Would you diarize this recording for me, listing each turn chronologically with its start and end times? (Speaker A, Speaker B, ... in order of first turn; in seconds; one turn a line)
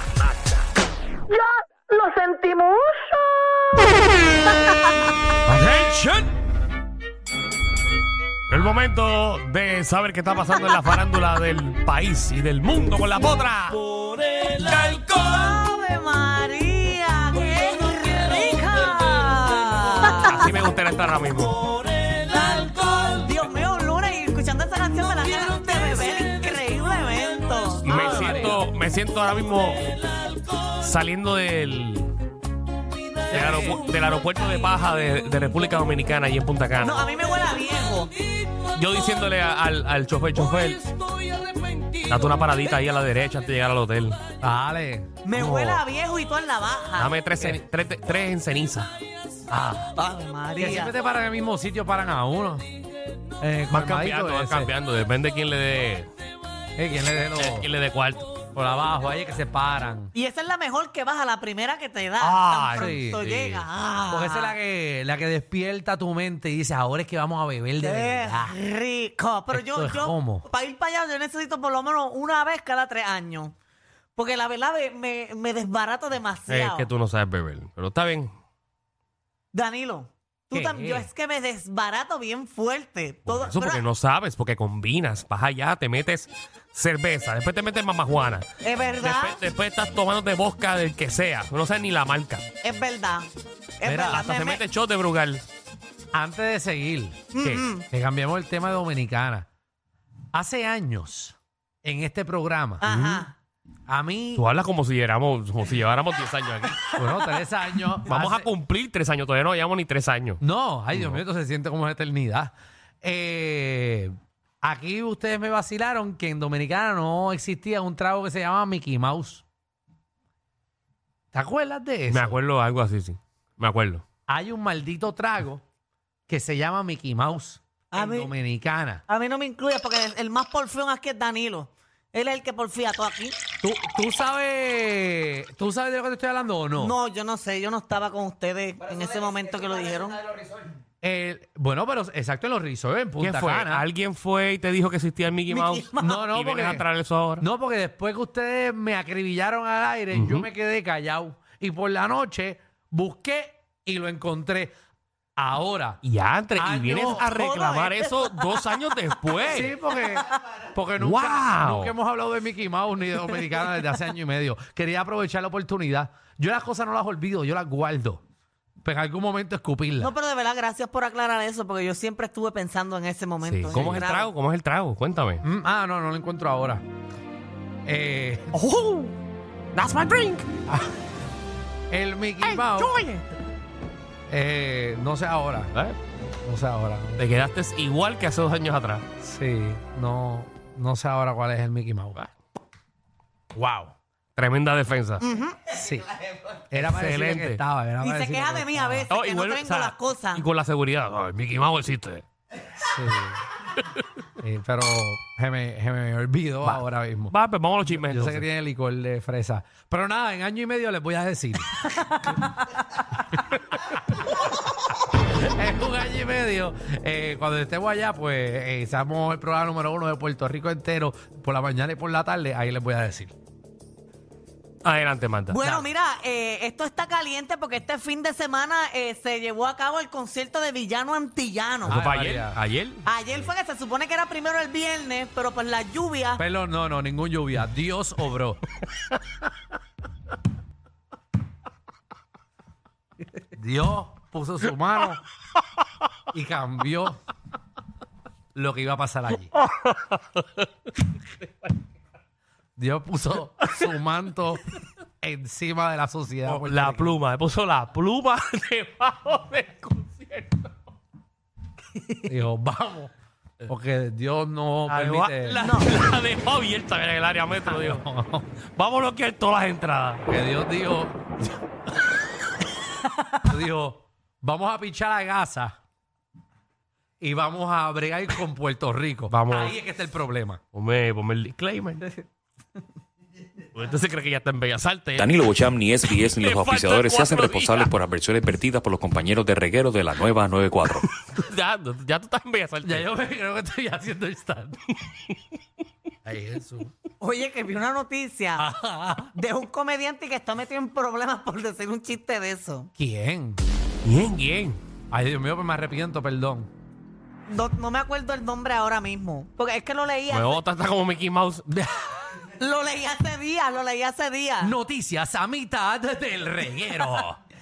Speaker A: 1.3-3.7
Speaker B: 5.5-6.3
Speaker B: 8.5-13.9
Speaker C: 14.4-20.5
Speaker B: 20.3-21.6
Speaker C: 22.1-28.5
Speaker B: 27.8-32.1
Speaker D: 27.8-28.6
Speaker D: 33.3-33.9
Speaker C: 33.3-33.9
Speaker B: 33.3-37.1
Speaker C: 36.8-38.1
Speaker B: 38.5-41.0
Speaker B: 42.1-44.2
Speaker D: 44.4-45.2
Speaker C: 45.2-47.2
Speaker B: 45.3-45.8
Speaker B: 47.0-49.0
Speaker D: 49.5-49.9
Speaker C: 50.0-51.0
Speaker D: 50.6-52.6
Speaker D: 53.4-54.7
Speaker B: 53.7-56.1
Speaker D: 56.8-57.7
Speaker B: 57.3-58.3
Speaker D: 58.5-60.1
Speaker C: 60.1-64.6
Speaker B: 62.2-63.7
Speaker D: 62.7-63.2
Speaker D: 64.1-68.6
Speaker C: 67.8-73.5
Speaker D: 69.5-70.5
Speaker C: 74.2-76.9
Speaker B: 76.5-78.3
Speaker C: 79.5-83.8
Speaker D: 80.5-81.1
Speaker B: 83.2-88.5
Speaker C: 88.6-89.4
Speaker B: 89.0-92.5
Speaker C: 92.6-93.3
Speaker C: 93.8-94.6
Speaker D: 93.8-94.2
Speaker B: 94.1-95.5
Speaker D: 96.1-99.5
Speaker C: 97.3-97.8
Speaker D: 100.3-102.9
Speaker C: 102.8-103.3
Speaker B: 102.9-103.3
Speaker D: 103.9-104.5
Speaker B: 104.4-110.4
Speaker D: 107.0-108.5
Speaker D: 110.4-119.4
Speaker B: 110.9-111.2
Speaker D: 121.3-122.4
Speaker B: 122.1-124.0
Speaker D: 124.3-125.6
Speaker D: 126.3-129.0
Speaker C: 127.9-128.3
Speaker C: 129.1-133.4
Speaker D: 133.6-136.9
Speaker C: 136.8-140.2
Speaker D: 141.0-143.9
Speaker B: 143.2-147.4
Speaker C: 145.5-146.2
Speaker D: 146.0-146.9
Speaker D: 147.4-154.7
Speaker B: 150.1-150.5
Speaker D: 155.4-156.0
Speaker B: 156.0-159.8
Speaker D: 156.6-157.3
Speaker C: 157.2-158.8
Speaker D: 159.4-168.2
Speaker B: 161.0-161.9
Speaker D: 168.8-170.1
Speaker C: 170.0-174.3
Speaker B: 173.4-175.4
Speaker D: 173.7-174.1
Speaker D: 175.4-176.8
Speaker D: 177.9-178.6
Speaker B: 178.5-179.2
Speaker B: 179.7-180.5
Speaker D: 181.9-183.0
Speaker B: 182.4-183.2
Speaker D: 184.3-185.7
Speaker D: 186.4-187.2
Speaker B: 187.2-189.1
Speaker D: 189.2-192.3
Speaker D: 193.5-193.9
Speaker B: 194.4-195.2
Speaker C: 195.2-195.6
Speaker D: 195.7-196.1
Speaker D: 196.7-199.1
Speaker B: 196.7-197.6
Speaker C: 198.0-200.4
Speaker B: 199.1-202.2
Speaker D: 202.8-203.5
Speaker D: 204.4-207.4
Speaker B: 206.6-208.4
Speaker D: 207.9-212.6
Speaker D: 215.2-223.3
Speaker B: 224.8-225.6
Speaker C: 225.5-232.0
Speaker D: 225.6-225.9
Speaker B: 231.8-233.0
Speaker D: 231.8-232.6
Speaker C: 233.0-236.4
Speaker D: 236.4-238.6
Speaker D: 243.5-245.2
Speaker D: 246.3-247.2
Speaker D: 248.5-249.5
Speaker B: 249.6-250.7
Speaker D: 252.8-257.1
Speaker B: 256.5-260.7
Speaker C: 262.0-262.3
Speaker D: 262.3-263.1
Speaker D: 263.6-265.6
Speaker B: 264.9-268.0
Speaker C: 265.6-265.9
Speaker D: 267.6-268.5
Speaker B: 268.6-270.2
Speaker D: 270.2-271.5
Speaker D: 273.4-275.8
Speaker D: 277.2-280.6
Speaker B: 279.3-279.8
Speaker B: 280.7-282.2
Speaker B: 283.7-285.3
Speaker E: 285.1-291.1
Speaker B: 286.3-287.9
Speaker B: 291.2-293.1
Speaker D: 292.8-294.8
Speaker D: 296.2-296.9
Speaker C: 297.2-298.7
Speaker D: 298.6-299.3
Speaker C: 299.3-302.9
Speaker D: 303.0-303.6
Speaker B: 304.0-304.8
Speaker D: 305.1-306.7
Speaker C: 307.5-310.6
Speaker B: 310.3-311.6
Speaker D: 311.7-312.1
Speaker C: 312.4-314.8
Speaker D: 314.6-317.4